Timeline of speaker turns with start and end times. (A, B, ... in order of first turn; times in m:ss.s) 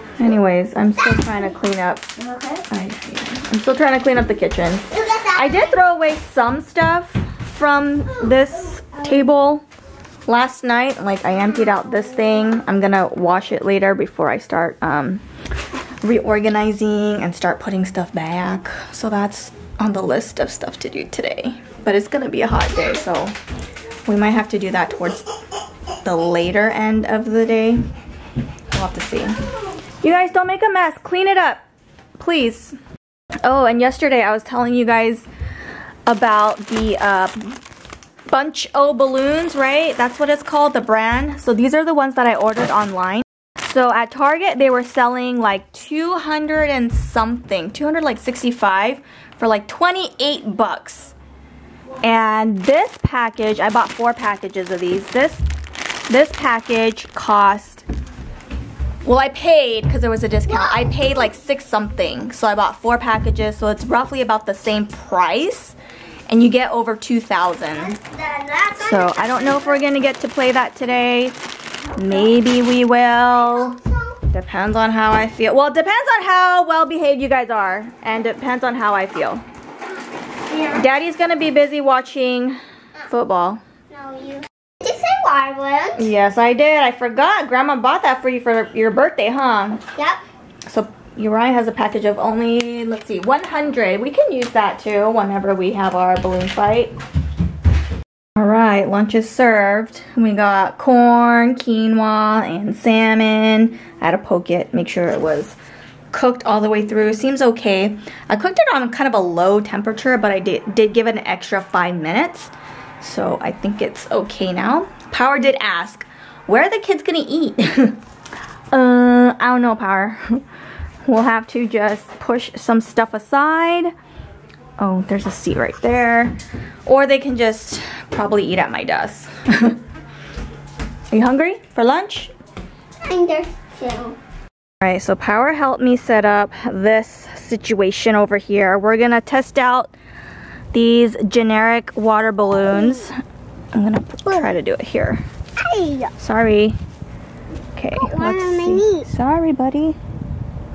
0:00.2-0:02.1 A
0:02.2-0:02.6 B
0:02.7-0:09.6 A
0:04.9-0:05.8 B
0:10.3-0:15.2 A
0:16.0-0:23.3 A
0:24.0-0:25.3 A
0:26.0-0:27.8 A
0:28.7-0:29.4 A
0:30.0-0:31.6 A
0:32.2-0:32.8 A
0:33.4-0:35.3 A
0:36.1-0:37.6 A
0:38.3-0:51.1 A
0:52.0-0:55.4 A
0:56.1-0:57.8 A
0:59.0-1:05.8 A
1:00.5-1:01.2 B
1:06.3-1:08.0 A
1:07.7-1:09.8 B
1:08.8-1:11.4 A
1:12.0-1:13.8 A
1:13.5-1:14.1 B
1:14.3-1:19.4 A
1:20.5-1:20.8 B
1:20.7-1:23.6 A
1:23.9-1:26.1 B
1:26.0-1:29.8 A
1:30.7-1:37.0 A
1:38.4-1:45.6 A
1:46.1-1:58.0 A
1:58.7-2:00.4 A
2:01.0-2:03.9 A
2:04.8-2:06.3 A
2:06.8-2:09.8 A
2:11.1-2:12.3 A
2:13.0-2:14.2 B
2:14.8-2:19.9 A
2:20.7-2:23.1 A
2:23.7-2:25.2 A
2:24.3-2:24.6 B
2:25.6-2:26.1 B
2:26.2-2:26.8 A
2:27.7-2:30.0 A
2:28.0-2:29.0 B